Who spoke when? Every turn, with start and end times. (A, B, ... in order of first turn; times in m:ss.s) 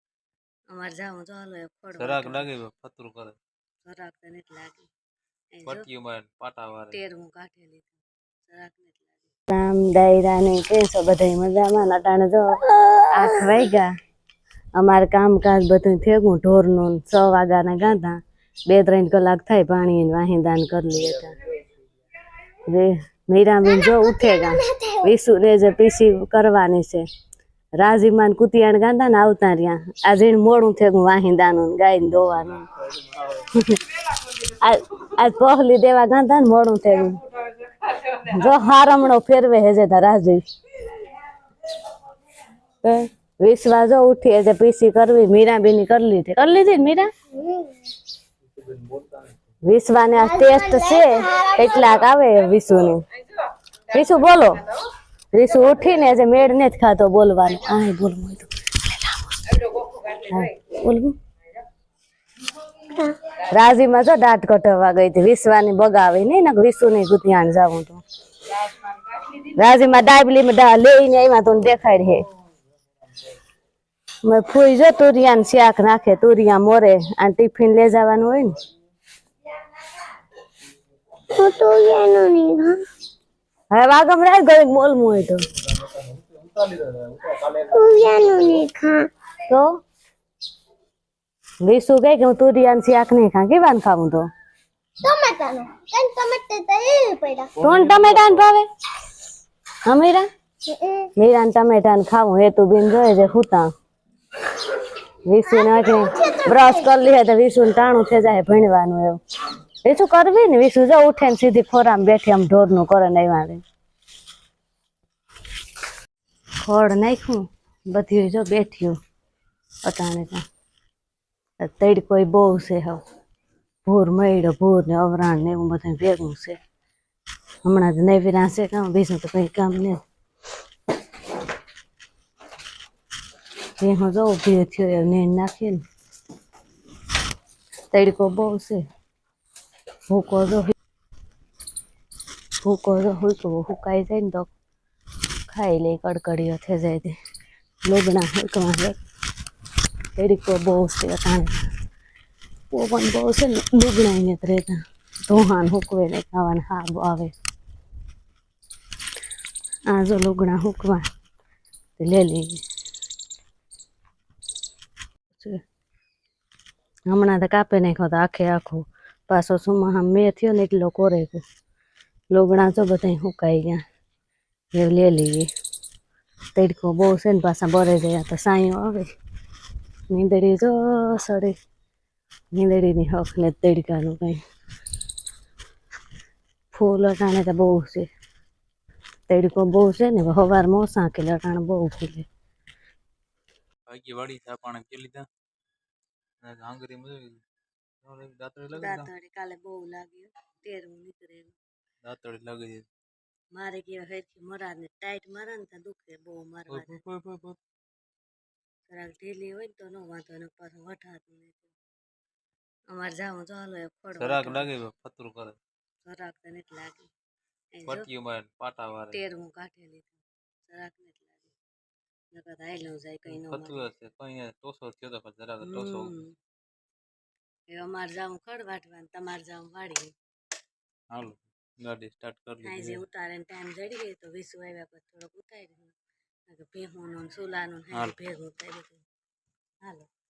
0:00.7-0:02.5 A
0:02.0-0:03.4 B
0:03.8-0:04.9 A
0:05.5-0:05.9 A
0:05.7-0:07.0 B
0:06.9-0:13.9 A
0:14.8-0:21.4 A
0:22.7-0:27.0 A
0:23.6-0:25.1 C
0:27.8-0:33.8 A
0:34.4-0:37.2 A
0:37.9-0:40.4 A
0:42.8-0:47.1 A
0:47.3-0:47.9 C
0:49.6-0:53.0 A
0:50.2-0:52.0 C
0:53.9-0:54.6 A
0:55.3-1:01.2 A
1:03.4-1:08.0 A
1:09.2-1:12.2 A
1:14.2-1:18.5 A
1:21.3-1:22.8 C
1:23.7-1:25.4 A
1:27.3-1:29.1 C
1:29.5-1:29.8 A
1:31.6-1:34.3 A
1:35.0-1:37.6 C
1:37.6-1:38.5 B
1:37.6-1:38.7 A
1:39.8-1:40.3 A
1:40.6-1:41.1 C
1:41.2-1:43.7 A
1:45.3-1:49.2 A
1:45.5-1:46.9 C
1:49.8-1:53.6 A
1:56.6-1:59.0 A
1:59.8-2:00.4 A
2:01.6-2:03.0 A
2:03.8-2:06.6 A
2:07.6-2:10.0 A
2:13.8-2:15.8 A
2:17.9-2:18.8 A
2:20.1-2:20.7 A
2:22.6-2:24.5 A
2:25.5-2:27.2 A
2:27.8-2:29.0 A
2:30.2-2:31.7 A
2:32.7-2:37.3 A
2:39.9-2:41.1 A
2:42.0-2:42.6 A
2:45.3-2:45.6 A
2:47.1-2:51.4 A
2:52.3-2:53.8 A
2:54.7-2:55.5 A
2:56.6-2:59.1 A
3:00.1-3:01.6 A
3:02.5-3:04.4 A
3:06.7-3:08.1 A
3:09.3-3:12.3 A
3:13.9-3:15.3 B
3:16.4-3:17.4 B
3:18.0-3:19.1 B
3:18.7-3:21.6 A
3:22.0-3:22.8 B
3:23.6-3:27.0 A
3:26.7-3:27.6 B
3:28.9-3:31.7 A
3:32.9-3:34.7 A
3:34.2-3:35.6 B
3:36.0-3:37.1 A
3:37.8-3:38.1 A
3:37.8-3:39.2 B
3:39.1-3:41.6 A
3:42.3-3:43.9 A
3:43.3-3:46.2 B
3:45.6-3:46.3 A
3:47.7-3:50.1 A
3:51.1-3:53.0 B
3:52.6-3:55.9 A
3:56.5-3:59.0 A
3:59.8-4:00.1 A